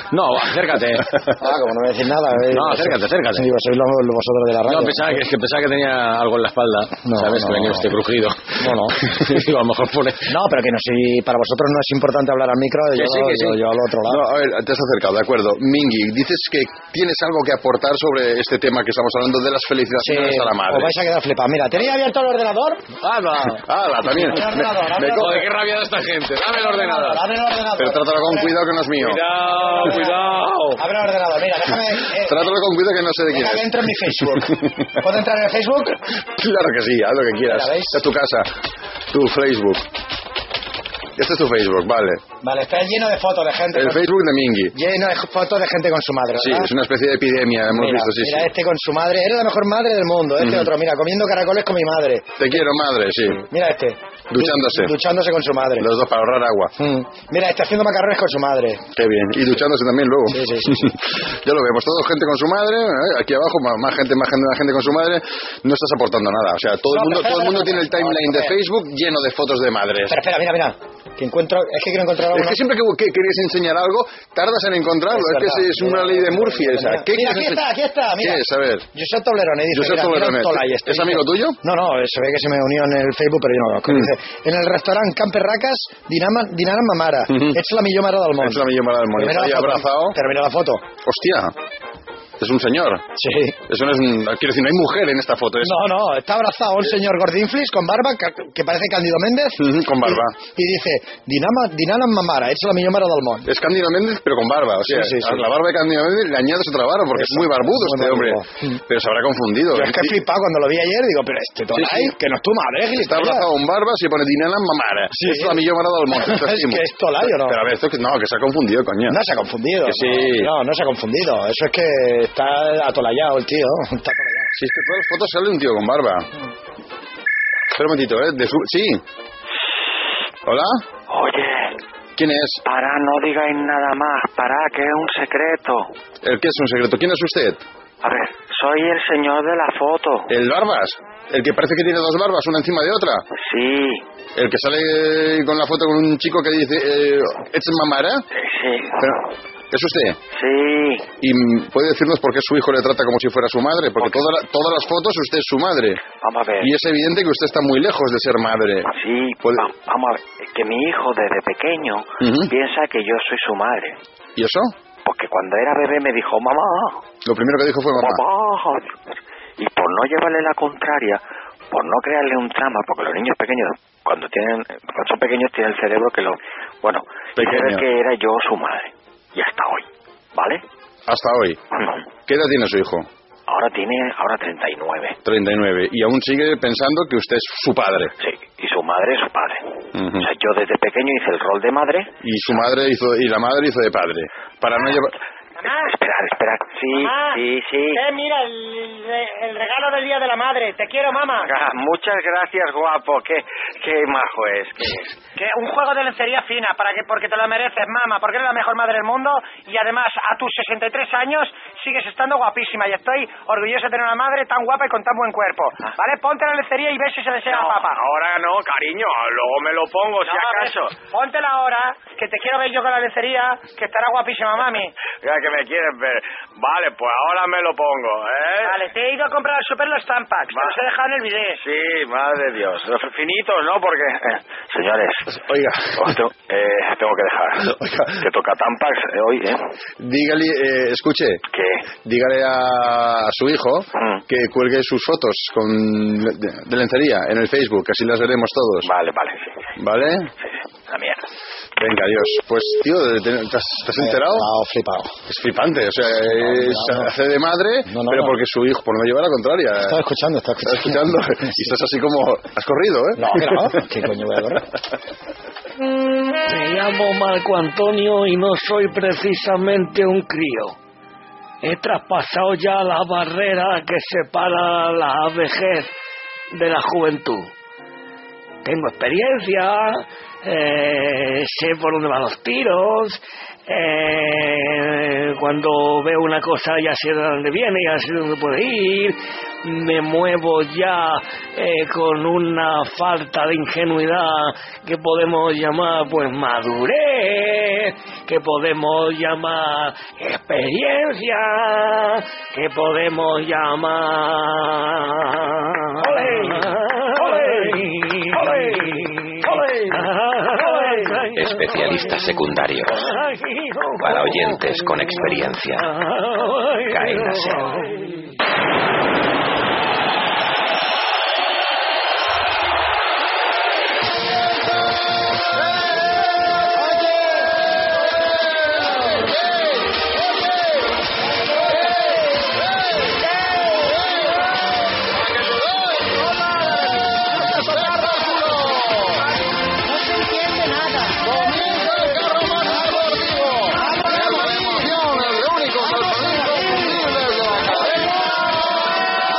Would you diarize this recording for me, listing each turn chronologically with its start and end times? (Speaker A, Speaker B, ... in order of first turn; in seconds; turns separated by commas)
Speaker A: 0.1-1.3, Speaker B: 1.4-5.2, Speaker A: 2.5-3.5, Speaker A: 4.7-10.3, Speaker B: 7.0-7.9, Speaker B: 8.6-9.0, Speaker B: 10.3-14.2, Speaker A: 12.9-13.6, Speaker C: 14.1-20.9, Speaker B: 20.0-22.8, Speaker A: 23.0-23.6, Speaker C: 23.6-25.5, Speaker B: 24.2-25.4, Speaker A: 25.0-27.2, Speaker B: 26.5-28.6, Speaker C: 27.8-29.2, Speaker A: 29.0-30.8, Speaker B: 29.5-30.2, Speaker B: 30.8-32.5, Speaker C: 32.1-35.0, Speaker B: 33.3-36.0, Speaker C: 36.3-38.5, Speaker B: 37.5-38.0, Speaker C: 39.1-39.9, Speaker C: 41.2-42.2, Speaker B: 42.4-44.1, Speaker C: 43.7-44.7, Speaker B: 44.7-46.7, Speaker C: 46.3-48.5, Speaker B: 47.7-52.3, Speaker C: 50.4-50.7, Speaker C: 52.4-53.4, Speaker B: 53.5-55.9, Speaker C: 54.3-54.9, Speaker C: 55.8-56.7, Speaker B: 56.8-58.8, Speaker C: 58.9-70.2, Speaker B: 60.3-60.9, Speaker B: 66.9-68.6, Speaker B: 70.1-72.6, Speaker C: 72.3-77.6, Speaker B: 75.1-90.8, Speaker C: 78.2-78.8, Speaker C: 79.7-81.6, Speaker C: 87.3-87.6, Speaker C: 88.4-90.2, Speaker C: 91.0-91.5, Speaker C: 92.4-93.0, Speaker B: 93.2-93.6, Speaker C: 93.7-95.8, Speaker B: 95.6-103.5, Speaker C: 99.6-100.3, Speaker C: 103.4-110.2, Speaker B: 104.8-105.5, Speaker B: 107.2-108.8, Speaker B: 109.7-113.5, Speaker C: 111.7-112.1, Speaker C: 113.0-119.2, Speaker B: 115.1-117.6, Speaker B: 119.1-124.5, Speaker C: 119.8-120.5, Speaker C: 124.6-126.3, Speaker C: 127.7-129.0, Speaker C: 130.4-130.8, Speaker D: 131.1-131.8, Speaker C: 132.2-132.6, Speaker D: 132.6-135.9, Speaker C: 136.2-137.6, Speaker D: 138.0-140.3, Speaker C: 140.3-143.3, Speaker D: 143.3-144.0, Speaker C: 144.3-148.2, Speaker D: 148.3-149.2, Speaker C: 149.7-150.2, Speaker D: 150.3-151.1, Speaker C: 151.2-156.0, Speaker D: 154.0-154.3, Speaker D: 156.0-156.7, Speaker C: 156.6-158.9, Speaker D: 158.9-164.0, Speaker C: 162.2-162.5, Speaker C: 164.4-164.7, Speaker D: 165.0-167.0, Speaker C: 167.2-168.2, Speaker D: 167.9-169.0, Speaker D: 169.6-180.6, Speaker C: 177.3-177.8, Speaker C: 181.1-181.6, Speaker C: 182.3-183.1, Speaker D: 183.5-185.2, Speaker C: 185.2-188.1, Speaker D: 188.2-192.1, Speaker C: 189.9-190.3, Speaker C: 192.2-195.1, Speaker E: 195.6-195.9, Speaker D: 195.6-198.0, Speaker E: 196.9-201.5, Speaker D: 201.4-205.0, Speaker E: 205.3-218.0, Speaker D: 217.4-219.0, Speaker D: 219.7-220.9, Speaker E: 220.2-224.9, Speaker D: 225.2-228.7, Speaker E: 228.6-231.6, Speaker D: 231.6-235.3, Speaker C: 235.3-236.1, Speaker D: 235.9-239.6, Speaker C: 237.6-238.2, Speaker C: 240.0-241.4, Speaker D: 241.5-241.8, Speaker C: 242.0-248.9, Speaker D: 243.9-244.2, Speaker D: 248.8-249.6, Speaker C: 249.8-250.3, Speaker D: 250.9-251.2, Speaker C: 251.8-254.5, Speaker B: 253.9-255.2, Speaker C: 255.3-260.0, Speaker B: 256.4-257.1, Speaker B: 257.9-258.4, Speaker B: 259.8-261.5, Speaker C: 260.6-263.8, Speaker B: 263.1-264.6, Speaker F: 266.4-270.7, Speaker F: 271.6-275.9, Speaker F: 276.5-277.5, Speaker F: 278.6-311.9, Speaker G: 311.2-313.0, Speaker F: 313.0-315.2, Speaker G: 314.0-315.9, Speaker F: 315.9-318.2, Speaker G: 316.8-317.6, Speaker C: 335.4-336.1, Speaker C: 337.2-339.2, Speaker B: 339.9-341.1, Speaker C: 341.2-348.5, Speaker B: 343.9-344.4